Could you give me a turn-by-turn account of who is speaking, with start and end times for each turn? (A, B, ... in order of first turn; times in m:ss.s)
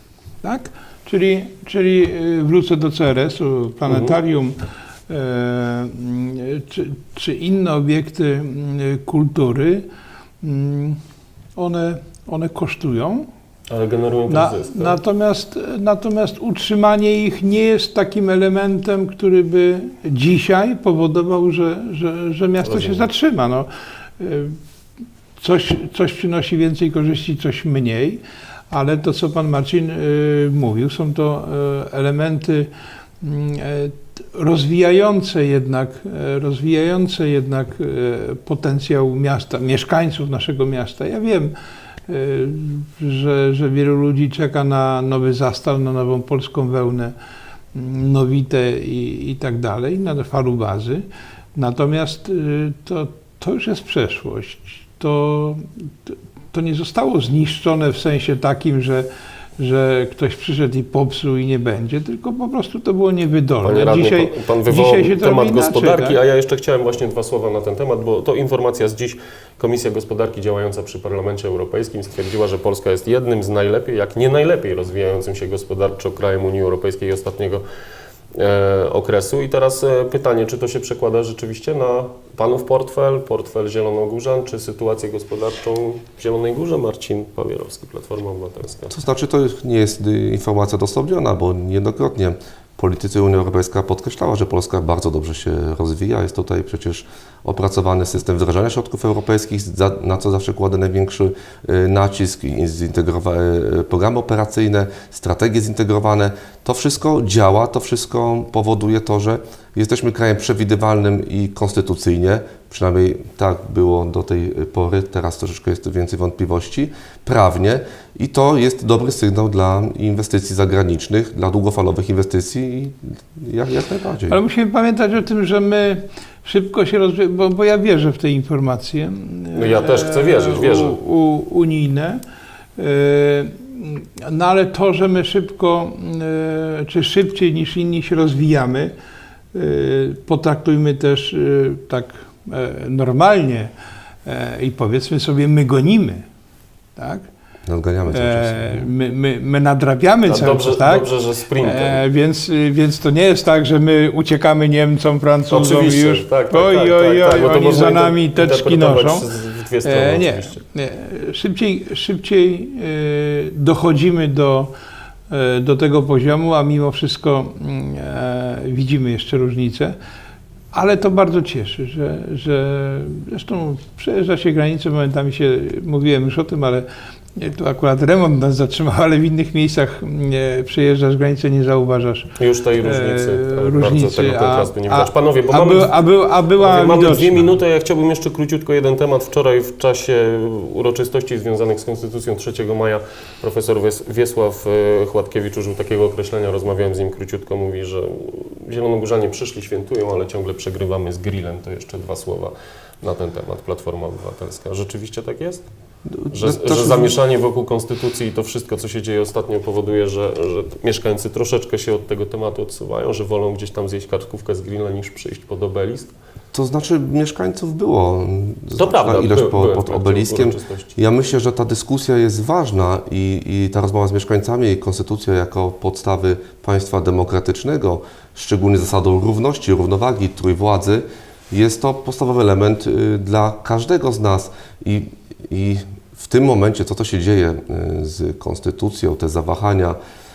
0:00.4-0:04.6 A
0:03.9-0:04.2 B
0:05.1-0:09.8 A
0:10.4-0:11.0 A
0:11.6-0:13.2 A
0:13.7-0:15.0 B
0:14.3-0:23.7 A
0:22.6-0:23.1 B
0:24.2-0:24.6 A
0:25.4-0:32.7 A
0:33.2-0:41.5 A
0:42.1-0:47.1 A
0:47.7-0:59.1 A
0:59.6-1:06.2 A
1:03.6-1:17.6 B
1:18.4-1:28.9 B
1:28.9-2:04.4 C
2:04.3-2:12.2 A
2:09.5-2:11.0 B
2:12.8-2:18.9 A
2:19.5-2:23.7 A
2:24.2-2:26.2 A
2:27.0-2:27.3 A
2:27.7-2:28.9 C
2:28.1-2:39.3 A
2:30.3-2:32.0 B
2:35.5-2:40.6 B
2:39.8-2:44.7 A
2:45.3-2:50.0 A
2:50.7-2:56.8 A
2:57.4-3:07.5 A
3:02.4-3:06.0 B
3:06.6-3:25.6 B
3:26.1-3:27.2 C
3:26.3-3:36.1 B
3:36.5-4:00.0 C
3:38.8-3:41.0 B